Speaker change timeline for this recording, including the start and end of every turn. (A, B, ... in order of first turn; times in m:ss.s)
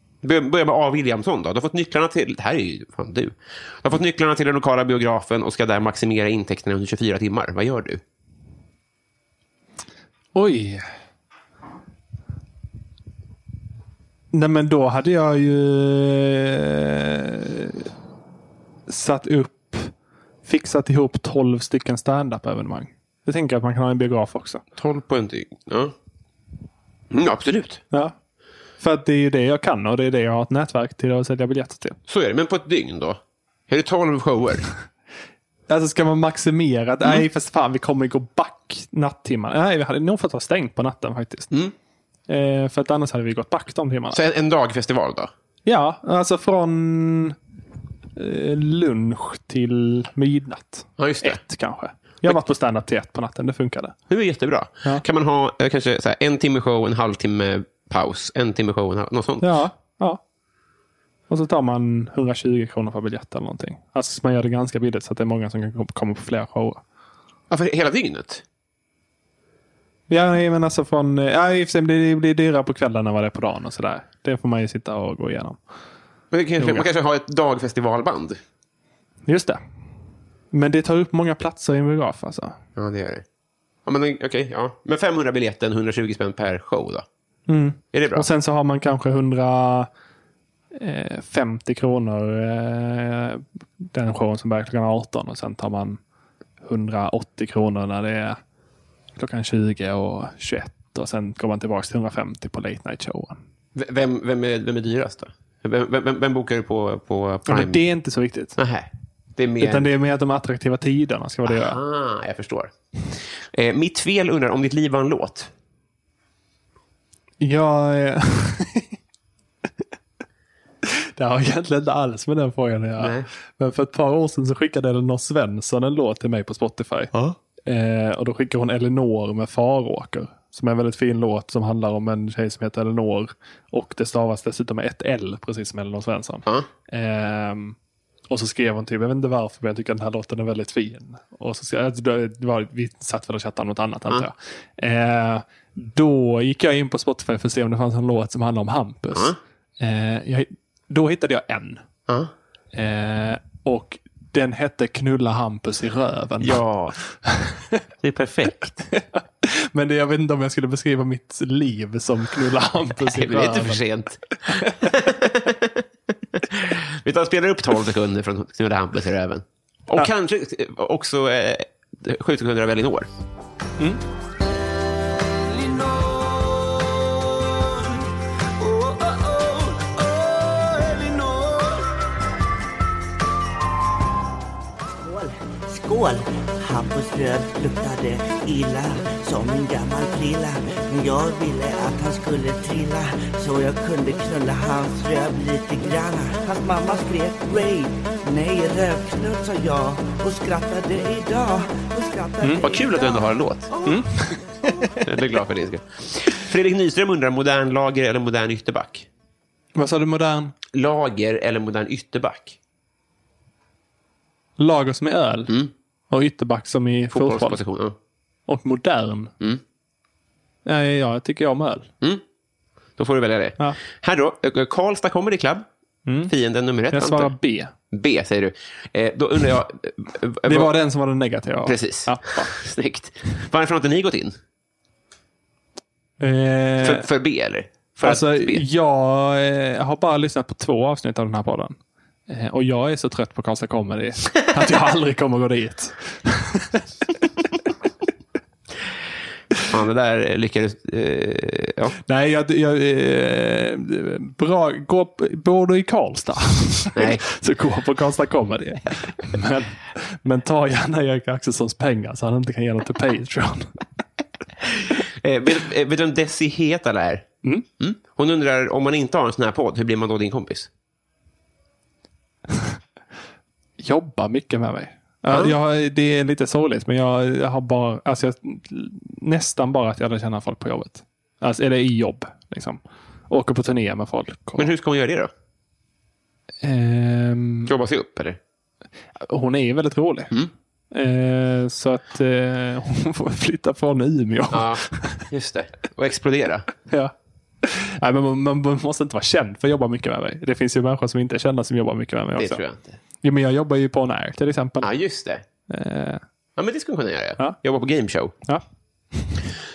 0:00.2-0:08.0 A
0:10.4-0:10.8 B
0:14.3-0:17.8 B
0:18.9-0:19.9 B
0:20.5-0:24.6 B
0:24.8-0:25.9 A
0:27.1-0:27.8 A
0:28.8-0:32.0 B
0:32.1-0:34.7 A
0:35.7-0:41.5 B
0:42.3-0:44.2 B
0:44.1-0:45.3 A
0:45.7-0:47.4 B
0:48.2-0:54.0 B
0:51.0-0:51.4 A
0:54.1-0:59.6 A
0:59.4-1:00.2 B
1:01.3-1:06.8 B
1:07.5-1:08.4 A
1:10.1-1:15.6 B
1:16.3-1:18.4 A
1:16.6-1:16.9 B
1:19.3-1:19.6 B
1:20.5-1:22.6 B
1:22.8-1:23.2 A
1:23.8-1:27.1 A
1:27.5-1:29.9 B
1:27.9-1:28.3 A
1:30.8-1:36.0 B
1:36.6-1:38.4 B
1:39.2-1:43.4 B
1:43.8-1:47.8 A
1:47.5-1:48.6 B
1:48.6-1:49.9 A
1:49.6-1:51.8 B
1:51.5-1:55.5 A
1:57.4-1:59.0 B
2:00.9-2:07.1 B
2:03.0-2:03.3 A
2:07.7-2:17.8 B
2:18.3-2:31.8 B
2:32.7-2:36.6 B
2:36.4-2:37.0 A
2:37.2-2:37.8 B
2:38.0-2:38.8 A
2:38.9-2:43.9 B
2:43.0-2:53.1 A
2:44.5-2:44.9 B
2:55.8-2:56.7 C
2:58.6-3:01.8 C
3:04.9-3:25.0 C
3:22.6-3:23.7 A
3:23.8-3:25.0 B
3:25.0-3:29.1 A
3:29.8-3:30.5 B
3:30.7-3:32.6 A
3:34.6-3:35.5 B
3:36.1-3:37.6 B
3:37.1-3:38.0 A
3:38.5-3:39.3 B
3:40.7-3:41.9 B
3:43.0-3:45.7 A
3:46.1-3:46.3 B
3:46.2-3:47.3 A
3:46.9-3:47.7 B
3:47.9-3:50.7 A
3:50.4-3:52.5 B
3:51.7-3:54.4 A
3:56.2-3:57.1 B
3:56.8-3:58.6 A
3:58.0-4:01.8 B
4:02.3-4:06.8 B
4:09.7-4:12.0 A
4:12.1-4:23.8 B
4:17.0-4:17.2 A
4:24.7-4:30.7 A
4:32.5-4:32.8 B
4:33.8-4:44.7 B
4:35.3-4:35.6 A
4:44.6-4:45.3 A
4:46.6-4:47.7 B
4:47.7-4:48.4 A
4:49.2-4:50.3 B
4:50.9-4:55.3 B
4:54.5-4:56.7 A
4:56.9-5:02.6 B
5:02.4-5:03.0 A
5:03.2-5:04.9 B
5:04.8-5:05.4 A
5:05.7-5:06.2 B
5:06.6-5:08.4 A
5:09.1-5:09.4 B